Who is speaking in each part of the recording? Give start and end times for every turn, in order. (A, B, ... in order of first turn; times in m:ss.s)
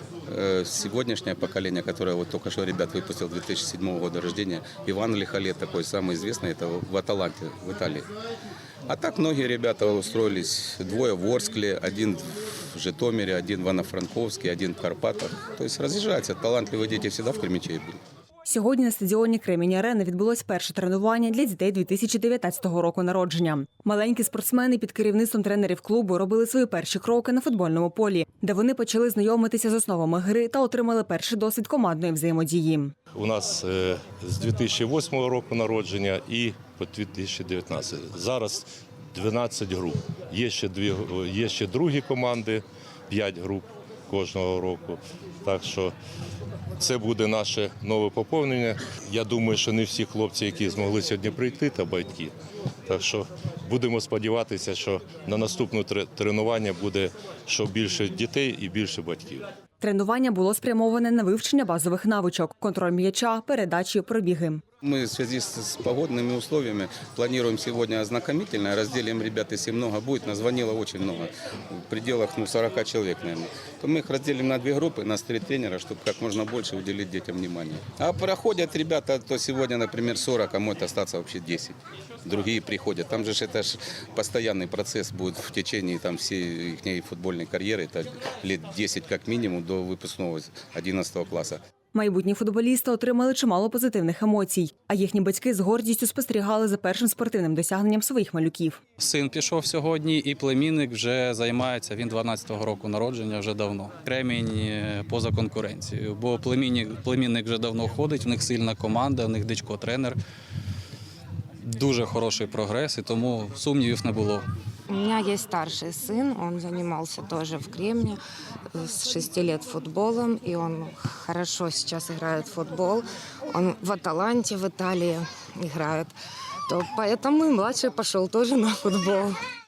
0:00.3-0:08.1 A
0:08.9-0:18.0 A
0:18.4-0:32.9 B
0:33.1-0:45.9 C
0:46.8-0:52.3 C
0:52.9-0:59.5 C
0:59.8-1:04.6 B
1:04.8-1:31.6 A
1:31.9-1:38.8 B
1:39.0-1:50.2 D
1:51.6-1:54.5 D
1:54.9-1:58.2 E
1:58.7-2:06.1 E
2:06.7-2:09.4 E